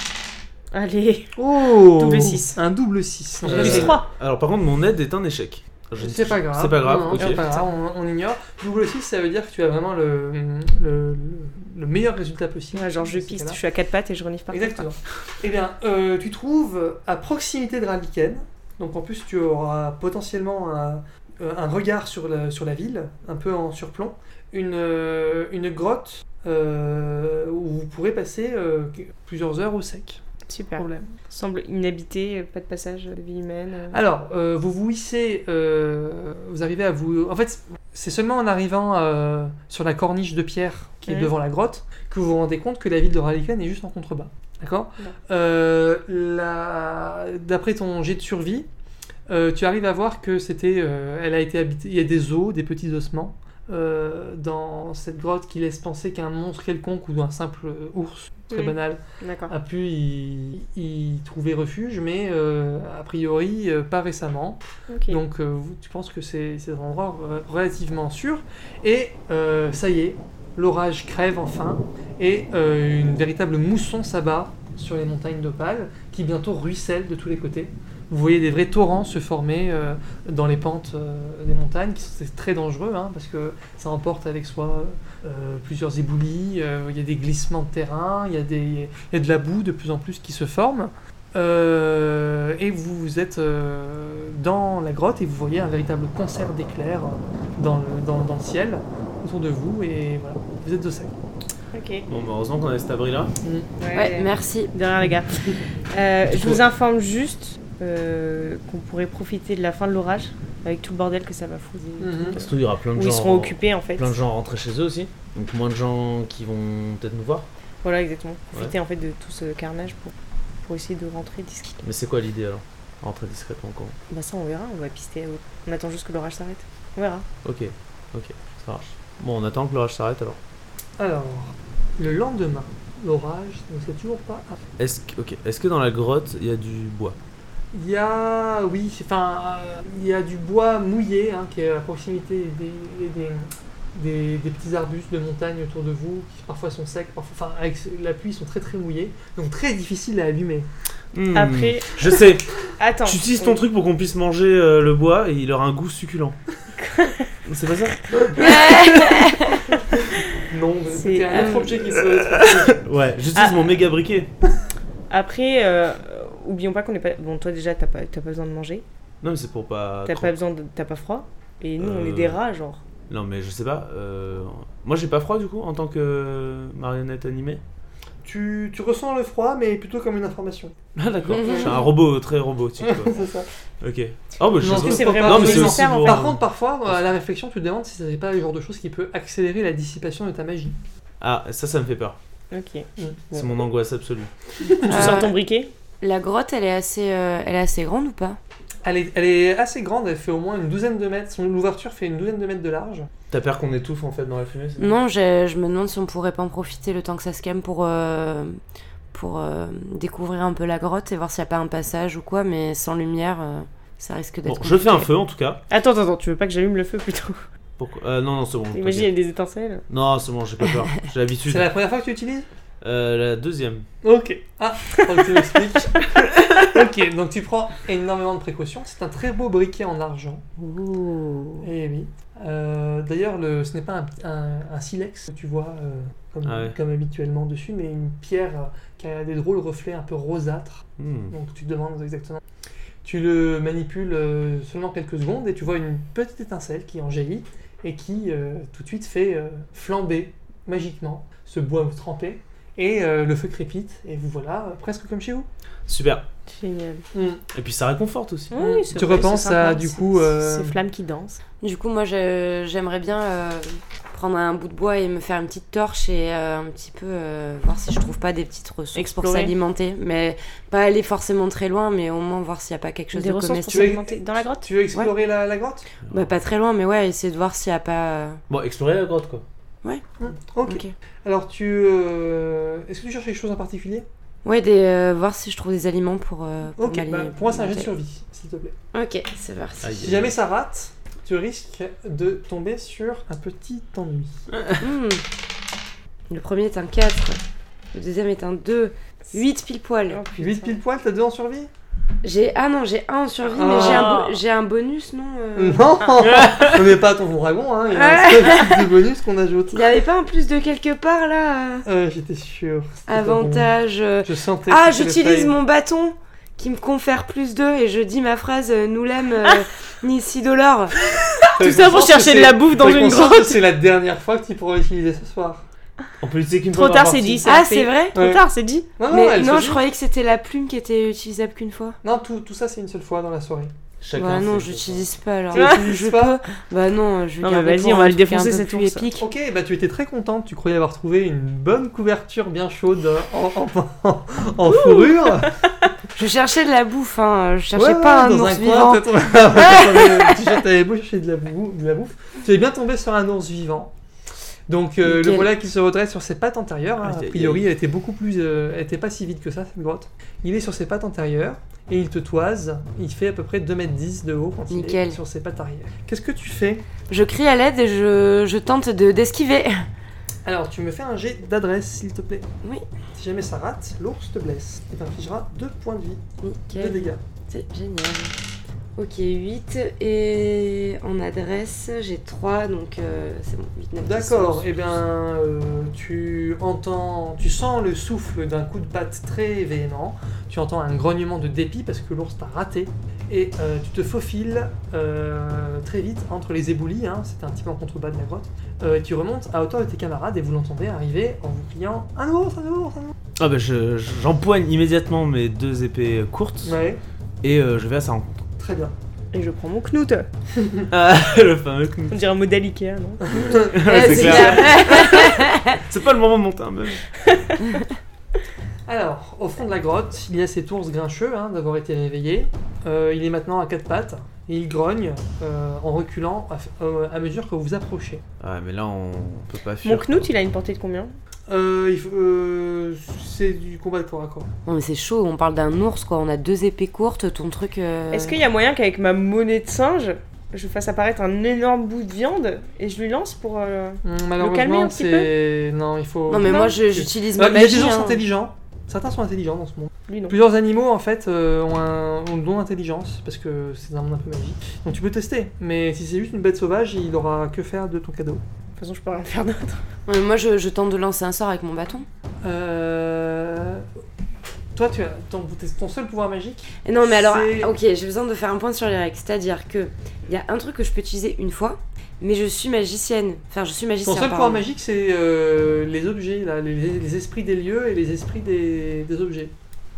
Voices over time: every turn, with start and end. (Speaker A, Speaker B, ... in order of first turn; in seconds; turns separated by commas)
Speaker A: 0.7-2.6, Speaker B: 1.4-4.0, Speaker A: 3.4-4.1, Speaker C: 3.5-7.5, Speaker B: 6.0-13.6, Speaker A: 7.1-7.6, Speaker A: 12.7-14.9, Speaker B: 14.5-30.2, Speaker A: 30.5-34.0, Speaker B: 30.8-31.1, Speaker B: 33.9-48.7, Speaker A: 41.1-41.3, Speaker B: 49.3-101.1, Speaker A: 58.5-59.5, Speaker A: 64.9-65.2, Speaker A: 101.7-102.0, Speaker C: 102.1-103.3, Speaker B: 103.4-103.7, Speaker A: 103.8-114.2, Speaker D: 103.9-104.7, Speaker C: 106.2-106.6, Speaker B: 112.0-112.4, Speaker C: 112.3-117.5, Speaker A: 117.8-120.1, Speaker A: 120.7-121.8, Speaker C: 121.8-124.0, Speaker A: 124.1-127.3, Speaker C: 127.4-130.4, Speaker B: 131.0-134.6, Speaker C: 134.8-137.2, Speaker B: 137.7-150.7, Speaker C: 151.1-156.4, Speaker A: 151.3-152.2, Speaker A: 152.8-153.6, Speaker A: 156.8-157.3, Speaker C: 157.4-158.9, Speaker D: 158.3-159.7, Speaker B: 160.4-162.8, Speaker A: 160.9-161.7, Speaker D: 161.3-161.6, Speaker C: 161.8-164.3, Speaker A: 163.3-163.8, Speaker A: 165.1-168.8, Speaker C: 169.2-170.3, Speaker A: 170.1-172.8, Speaker C: 171.8-172.4, Speaker C: 173.1-177.6, Speaker B: 178.2-180.7, Speaker C: 180.9-183.3, Speaker D: 181.3-181.8, Speaker B: 181.4-181.7, Speaker B: 182.8-183.5, Speaker C: 183.8-187.0, Speaker B: 184.6-190.8, Speaker A: 184.6-186.2, Speaker C: 191.2-192.2, Speaker A: 192.5-192.9, Speaker B: 193.0-193.3, Speaker C: 193.3-194.3, Speaker B: 194.6-195.0, Speaker A: 194.7-195.7, Speaker D: 194.9-195.3, Speaker D: 196.0-198.4, Speaker B: 198.8-203.1, Speaker C: 203.3-204.9, Speaker D: 204.8-208.6, Speaker D: 209.1-215.1, Speaker C: 214.4-215.6, Speaker A: 215.7-217.4, Speaker C: 217.8-219.1, Speaker A: 218.7-219.8, Speaker C: 219.9-221.7, Speaker B: 221.5-222.5, Speaker C: 222.8-223.8, Speaker B: 224.0-230.4, Speaker A: 230.6-231.6, Speaker B: 231.6-242.4, Speaker C: 236.4-236.8, Speaker C: 241.0-241.3, Speaker B: 243.0-255.5, Speaker C: 255.9-256.2, Speaker A: 256.5-257.0, Speaker B: 257.1-257.4, Speaker C: 257.5-258.5, Speaker A: 258.5-261.4, Speaker B: 258.5-260.8, Speaker D: 261.6-273.9, Speaker A: 268.9-269.5, Speaker A: 273.1-274.7, Speaker B: 273.7-275.9, Speaker D: 276.1-278.4, Speaker C: 278.5-279.4, Speaker B: 280.2-284.1, Speaker D: 280.6-280.9, Speaker D: 284.4-287.9, Speaker B: 286.8-288.7, Speaker D: 288.9-290.1, Speaker C: 289.8-290.3, Speaker B: 290.0-294.4, Speaker C: 294.5-294.8, Speaker D: 294.8-295.2, Speaker D: 296.3-297.4, Speaker D: 297.9-300.2, Speaker A: 300.1-300.8, Speaker B: 300.4-301.7, Speaker D: 302.2-306.0, Speaker A: 303.4-304.4, Speaker B: 303.5-304.1, Speaker B: 305.6-309.9, Speaker C: 306.2-306.8, Speaker D: 307.9-308.9, Speaker D: 309.7-311.9, Speaker B: 311.9-315.6, Speaker D: 313.1-321.1, Speaker B: 321.4-325.6, Speaker A: 321.4-323.6, Speaker C: 326.2-327.6, Speaker A: 326.7-328.9, Speaker D: 327.4-328.2, Speaker B: 328.1-328.4, Speaker B: 329.0-329.8, Speaker D: 329.1-332.0, Speaker B: 332.0-333.7, Speaker C: 334.0-335.1, Speaker D: 334.1-339.3, Speaker B: 335.5-336.4, Speaker A: 337.4-339.1, Speaker B: 339.2-345.5, Speaker A: 344.7-345.6, Speaker D: 346.1-350.1, Speaker B: 347.7-353.9, Speaker B: 354.7-366.8, Speaker D: 355.0-355.5, Speaker C: 357.0-357.7, Speaker D: 364.7-365.2, Speaker D: 367.1-369.9, Speaker B: 370.4-372.5, Speaker B: 373.1-377.2, Speaker D: 376.4-378.4, Speaker D: 378.9-385.0, Speaker B: 384.0-403.1, Speaker C: 403.4-406.8, Speaker B: 406.6-407.0, Speaker C: 407.4-408.3, Speaker B: 408.6-408.9, Speaker A: 409.3-410.3, Speaker B: 410.6-410.9, Speaker C: 410.9-412.2, Speaker A: 412.1-415.4, Speaker B: 413.2-414.6, Speaker C: 413.4-415.2, Speaker D: 413.8-415.8, Speaker C: 415.8-417.1, Speaker B: 418.9-428.2, Speaker C: 428.4-430.3, Speaker A: 429.8-431.1, Speaker B: 431.5-434.5, Speaker D: 434.6-438.4, Speaker A: 438.1-445.3, Speaker B: 444.0-458.4, Speaker D: 446.3-448.2, Speaker A: 446.4-446.7, Speaker A: 450.1-450.4, Speaker A: 458.8-459.8, Speaker D: 460.1-462.1, Speaker B: 462.4-463.8, Speaker B: 464.7-467.7, Speaker D: 466.8-474.6, Speaker B: 474.0-479.5